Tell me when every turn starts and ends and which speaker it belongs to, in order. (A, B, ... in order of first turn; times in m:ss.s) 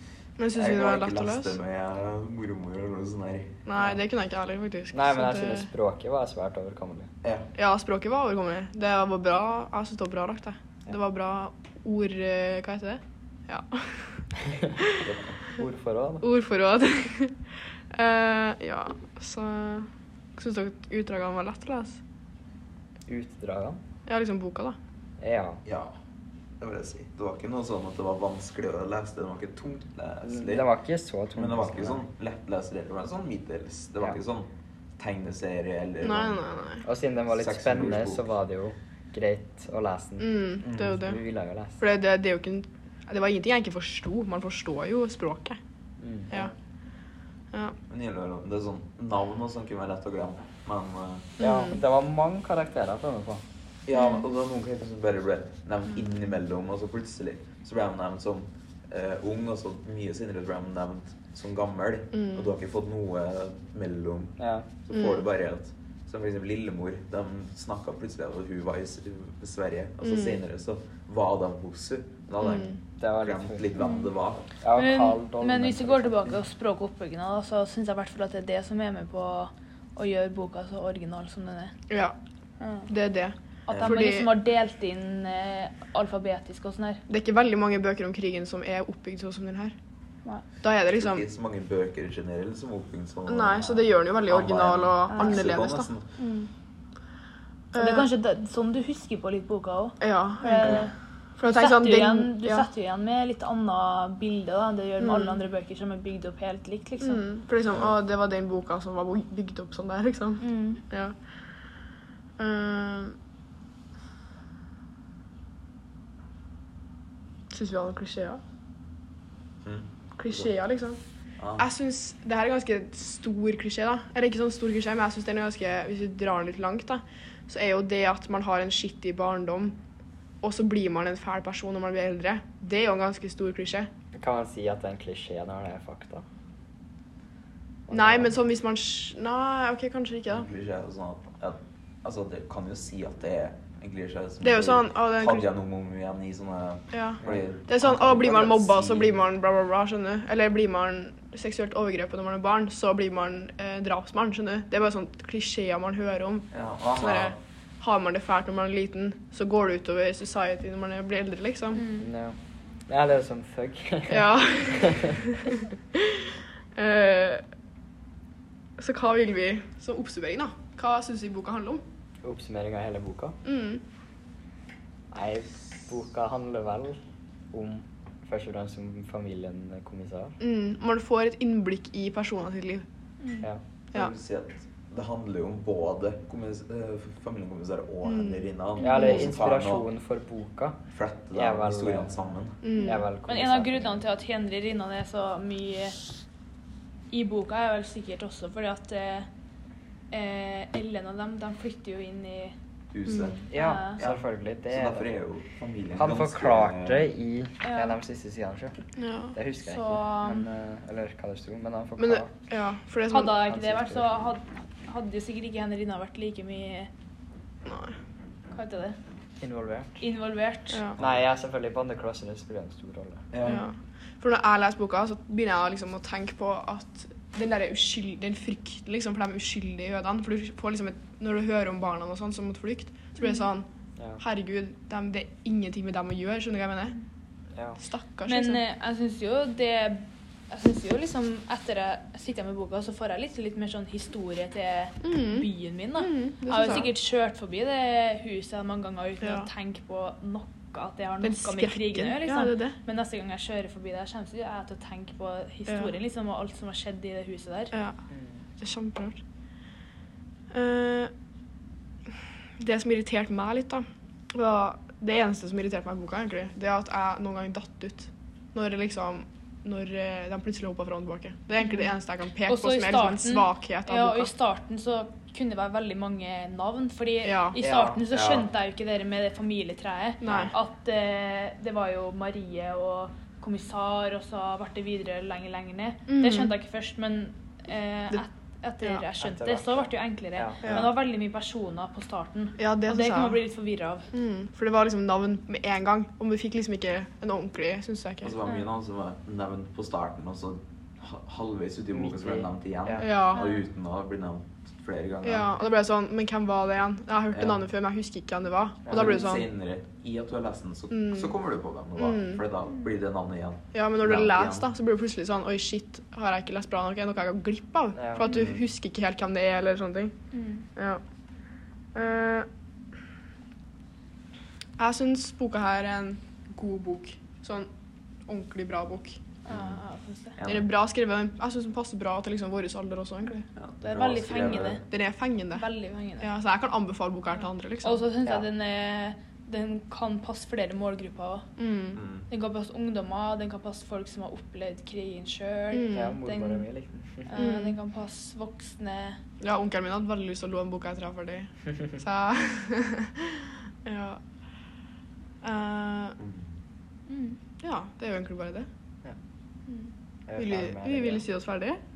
0:00.4-0:01.5 A
0:00.5-0:03.6 B
0:03.6-0:05.7 A
0:04.9-0:07.1 C
0:07.2-0:07.5 B
0:07.5-0:14.1 A
0:14.5-0:14.7 C
0:14.8-0:15.1 A
0:15.0-0:15.3 B
0:15.6-0:16.2 C
0:16.2-0:17.4 A
0:17.9-0:22.0 A
0:23.1-0:23.8 C
0:24.0-0:24.8 A
0:25.2-0:25.6 C
0:25.6-0:25.9 B
0:26.6-0:30.6 B
0:30.2-0:32.0 C
0:31.3-0:36.4 B
0:36.0-0:36.8 A
0:36.8-0:41.8 C
0:37.3-0:38.3 B
0:40.2-0:41.2 A
0:40.6-0:41.0 B
0:41.8-0:45.6 A
0:46.0-0:46.5 C
0:47.9-0:51.3 B
0:51.4-0:51.8 A
0:51.4-0:53.4 C
0:53.8-1:14.5 B
1:02.2-1:02.4 A
1:04.4-1:04.7 C
1:04.9-1:05.2 A
1:10.0-1:10.4 A
1:12.4-1:12.8 A
1:13.0-1:13.7 C
1:13.8-1:14.1 D
1:14.6-1:16.3 C
1:14.7-1:21.7 D
1:21.9-1:22.2 A
1:22.6-1:22.9 D
1:22.9-1:24.3 A
1:23.6-1:27.0 D
1:23.7-1:24.0 B
1:27.1-1:29.7 A
1:30.6-1:31.2 A
1:30.9-1:36.1 B
1:33.3-1:35.9 A
1:35.1-1:35.4 D
1:36.2-1:36.5 D
1:37.7-1:38.1 A
1:37.7-1:40.9 D
1:40.0-1:42.6 A
1:41.4-1:47.2 D
1:45.0-1:45.4 A
1:47.0-1:51.1 A
1:50.4-1:50.8 D
1:52.4-1:53.2 A
1:57.5-1:58.4 A
1:59.6-2:00.5 B
2:00.2-2:01.0 A
2:01.4-2:01.6 B
2:01.6-2:09.8 A
2:10.4-2:13.9 A
2:14.1-2:16.2 C
2:17.9-2:18.3 C
2:17.9-2:20.5 A
2:20.3-2:29.2 B
2:24.4-2:25.5 A
2:26.9-2:41.8 A
2:36.5-2:37.4 B
2:41.7-2:42.1 D
2:42.0-2:42.4 C
2:42.9-2:45.3 C
2:44.1-2:47.4 A
2:48.8-2:51.8 A
2:52.2-2:53.4 C
2:53.4-2:53.8 A
2:55.1-2:57.0 C
2:57.5-3:00.4 C
3:00.4-3:02.8 A
3:03.9-3:09.8 B
3:08.0-3:08.5 A
3:08.8-3:10.8 C
3:08.8-3:09.1 D
3:10.9-3:12.6 B
3:11.3-3:12.2 C
3:12.6-3:13.0 A
3:12.8-3:16.0 D
3:12.8-3:14.0 C
3:17.1-3:19.3 D
3:20.1-3:22.6 D
3:22.9-3:27.1 B
3:23.1-3:23.3 A
3:23.5-3:25.1 C
3:23.5-3:24.0 D
3:26.0-3:28.7 C
3:27.6-3:28.0 D
3:29.0-3:29.4 A
3:29.3-3:32.3 C
3:29.6-3:30.4 D
3:32.0-3:33.4 A
3:33.1-3:36.9 D
3:33.5-3:34.1 C
3:37.6-3:37.9 A
3:38.5-3:39.0 D
3:39.4-3:40.0 C
3:40.0-3:40.8 D
3:40.7-3:41.0 A
3:41.0-3:41.2 B
3:41.0-3:43.3 C
3:43.3-3:43.6 B
3:43.4-3:53.6 A
3:54.2-3:57.0 A
3:57.8-3:58.6 A
3:58.2-4:17.7 D
4:05.0-4:06.9 A
4:09.2-4:09.5 A
4:11.2-4:12.7 A
4:18.6-4:19.2 A
4:20.5-4:21.1 A
4:22.6-4:34.3 A
4:32.5-4:54.1 D
4:37.2-4:37.6 A
4:37.6-4:38.0 C
4:38.1-4:38.4 B
4:40.2-4:40.5 A
4:46.1-4:46.5 A
4:49.2-4:50.9 C
4:50.6-4:50.9 A
4:52.6-4:53.4 A
4:54.1-4:58.3 A
4:58.2-5:05.5 B
5:02.0-5:03.0 C
5:03.0-5:03.4 A
5:03.3-5:03.6 D
5:05.2-5:09.4 A
5:07.3-5:07.6 B
5:08.8-5:09.2 C
5:08.9-5:14.7 B
5:10.9-5:11.3 A
5:12.0-5:12.4 A
5:13.7-5:20.1 A
5:18.0-5:18.2 C
5:18.2-5:18.6 B
5:20.3-5:20.6 D
5:20.8-5:21.0 A
5:21.9-5:22.5 A
5:24.8-5:27.7 A
5:28.3-5:29.2 A
5:29.5-5:30.4 D
5:29.5-5:29.8 B
5:30.4-5:30.7 B
5:30.4-5:33.4 A
5:33.6-5:34.8 B
5:33.8-5:34.8 D
5:34.9-5:35.7 A
5:35.5-5:36.3 D
5:36.2-5:38.0 A
5:37.8-5:41.5 D
5:41.6-5:42.0 A
5:41.9-5:42.3 B
5:42.3-5:46.7 D
5:45.7-5:46.2 A
5:45.9-5:47.3 C
5:47.2-5:49.2 D
5:47.3-5:47.8 A
5:49.4-5:54.2 A
5:55.4-5:56.2 A
5:56.2-5:56.4 B
5:57.1-5:57.4 D
5:57.6-5:58.7 A
6:00.3-6:01.2 C
6:00.4-6:01.8 A